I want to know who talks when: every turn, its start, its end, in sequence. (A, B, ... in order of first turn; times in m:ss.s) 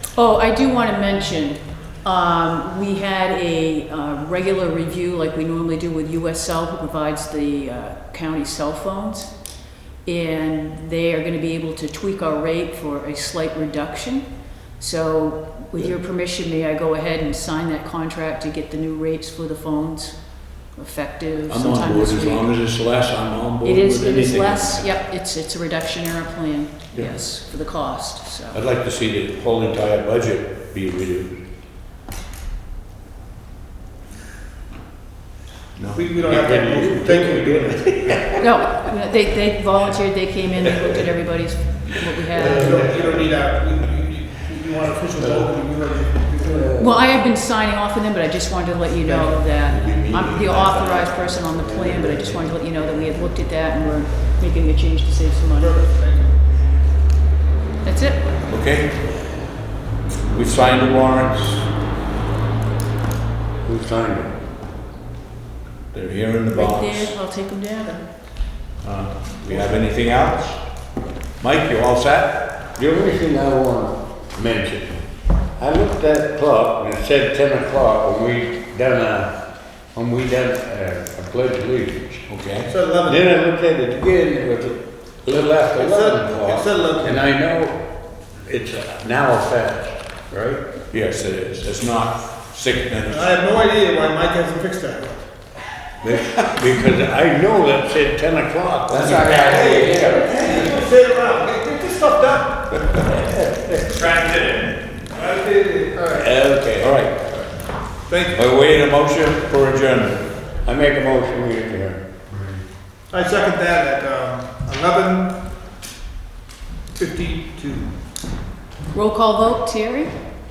0:00.1-0:09.3 A
0:10.0-0:14.3 A
0:14.8-0:22.5 A
0:21.5-0:25.0 B
0:23.6-0:28.6 A
0:28.5-0:31.4 B
0:35.8-0:36.0 B
0:35.9-0:38.3 C
0:36.2-0:38.7 D
0:38.4-0:42.9 A
0:42.3-0:46.8 C
0:42.4-0:43.2 D
0:46.4-0:47.1 D
0:46.7-0:55.8 A
0:49.6-0:52.4 B
0:51.9-0:52.1 D
0:55.6-0:56.4 C
0:57.8-0:58.3 A
0:58.5-0:59.1 B
1:00.3-1:01.7 B
1:03.6-1:04.3 D
1:05.9-1:07.2 B
1:06.5-1:08.0 A
1:08.8-1:10.6 B
1:11.4-1:12.4 B
1:12.8-1:15.0 D
1:15.6-1:19.3 D
1:19.9-1:22.3 D
1:22.3-1:22.7 B
1:22.7-1:23.2 C
1:23.0-1:27.8 D
1:25.7-1:27.2 C
1:28.4-1:30.6 D
1:30.9-1:33.4 B
1:33.1-1:35.2 C
1:36.0-1:40.8 D
1:36.0-1:36.4 B
1:38.9-1:39.6 B
1:39.1-1:43.2 C
1:43.0-1:44.1 D
1:44.0-1:46.3 C
1:46.1-1:47.0 D
1:46.7-1:47.3 B
1:48.1-1:48.4 C
1:48.3-1:50.2 B
1:50.6-1:52.0 D
1:53.1-1:55.4 C
1:57.0-1:57.9 C
1:58.9-2:00.1 A